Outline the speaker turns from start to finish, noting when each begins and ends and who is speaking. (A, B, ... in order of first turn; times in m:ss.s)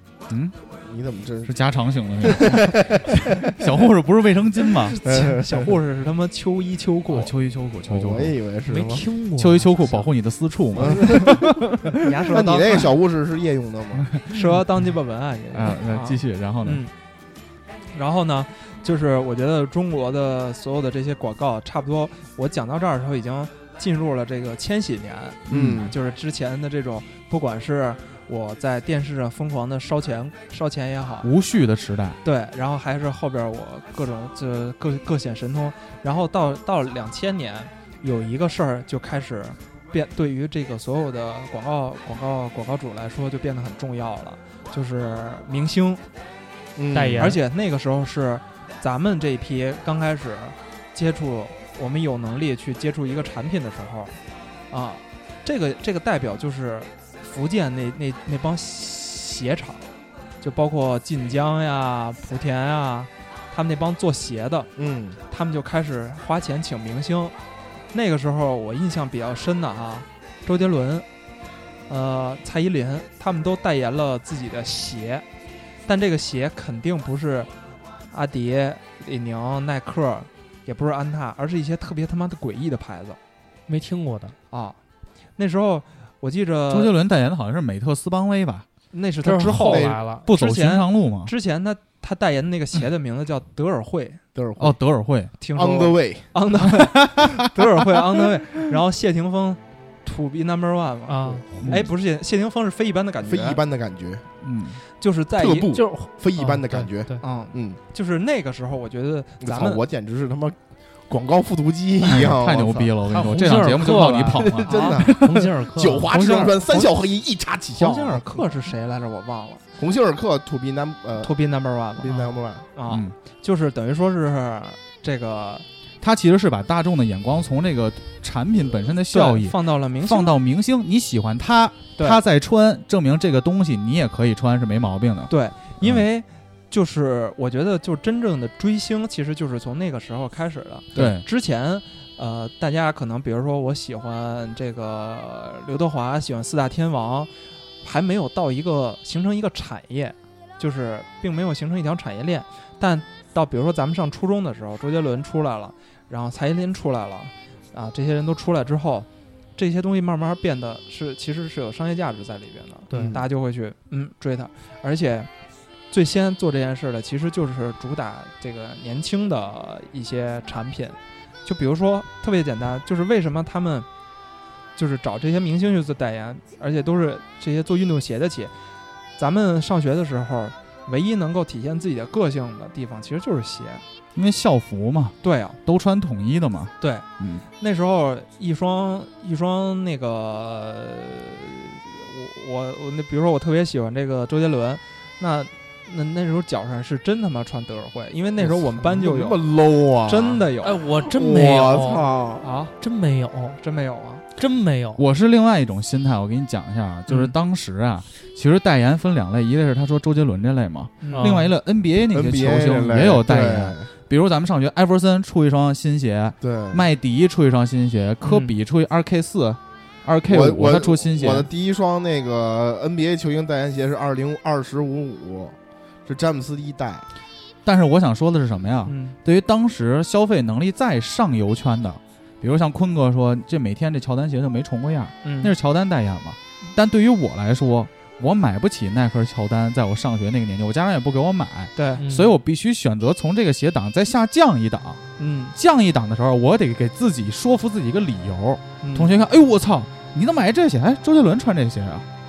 0:00.3-0:00.5 A
0:00.7-0:01.5 B
0:01.4-0:05.0 A
0:02.2-0:03.5 B
0:04.9-0:07.3 C
0:05.0-0:05.7 B
0:07.1-0:08.4 A
0:07.9-0:09.0 B
0:08.7-0:10.0 D
0:09.4-0:11.9 A
0:10.7-0:11.6 B
0:10.8-0:11.4 C
0:12.0-0:12.9 C
0:12.3-0:14.0 B
0:14.0-0:14.4 A
0:14.3-0:16.9 C
0:15.5-0:16.8 A
0:17.9-0:31.3 C
0:25.5-0:25.9 A
0:25.5-0:25.9 B
0:31.2-0:32.2 A
0:32.2-0:46.0 C
0:46.8-0:47.4 B
0:46.9-0:47.4 D
0:47.2-0:54.2 C
0:54.7-0:59.8 C
1:00.4-1:04.7 C
1:04.8-1:05.2 B
1:05.3-1:07.3 C
1:07.9-1:11.0 C
1:11.9-1:15.2 C
1:15.8-1:17.5 C
1:18.1-1:23.2 C
1:23.7-1:24.4 D
1:24.5-1:24.8 C
1:25.4-1:26.9 C
1:26.7-1:28.6 A
1:28.9-1:34.2 C
1:29.2-1:30.3 D
1:29.7-1:29.9 B
1:29.7-1:31.3 A
1:34.3-1:34.8 B
1:34.6-1:35.3 A
1:35.4-1:43.6 C
1:35.5-1:36.3 B
1:36.8-1:37.3 A
1:41.1-1:41.4 D
1:41.2-1:41.8 B
1:41.6-1:41.9 A
1:43.2-1:44.2 B
1:44.4-1:44.8 A
1:45.0-1:45.7 C
1:45.3-1:47.8 B
1:45.7-1:47.2 D
1:47.2-1:49.8 C
1:49.4-1:52.9 B
1:52.0-1:55.5 A
1:53.1-1:56.1 D
1:54.4-1:58.4 B
1:54.7-1:55.0 C
1:56.0-1:56.9 A
1:57.7-1:59.6 C
1:59.8-2:01.3 B
2:01.2-2:02.1 C
2:02.0-2:02.6 B
2:02.0-2:02.4 D
2:02.7-2:05.6 C
2:02.9-2:03.1 A
2:06.0-2:16.0 A
2:09.1-2:10.3 C
2:15.3-2:45.3 C
2:20.9-2:21.2 A
2:42.9-2:43.2 D
2:42.9-2:43.2 B
2:45.9-2:53.9 C
2:54.8-2:58.5 C
2:59.2-3:03.8 C
3:04.1-3:07.4 A
3:05.2-3:05.6 C
3:06.8-3:19.4 C
3:18.4-3:20.4 B
3:20.0-3:20.8 C
3:20.6-3:22.1 D
3:21.0-3:22.4 B
3:22.4-3:22.7 C
3:22.8-3:23.6 D
3:23.6-3:24.2 C
3:24.4-3:25.0 D
3:25.0-3:41.5 A
3:27.1-3:27.3 C
3:31.0-3:31.5 C
3:31.1-3:31.4 D
3:32.1-3:33.9 B
3:36.4-3:36.8 B
3:38.2-3:38.5 C
3:40.3-3:47.0 B
3:47.6-4:05.0 A
3:48.8-3:49.2 C
3:55.2-3:55.5 C
4:01.8-4:02.0 C
4:02.0-4:02.3 D
4:05.2-4:05.5 C
4:05.6-4:12.0 A
4:08.8-4:09.1 C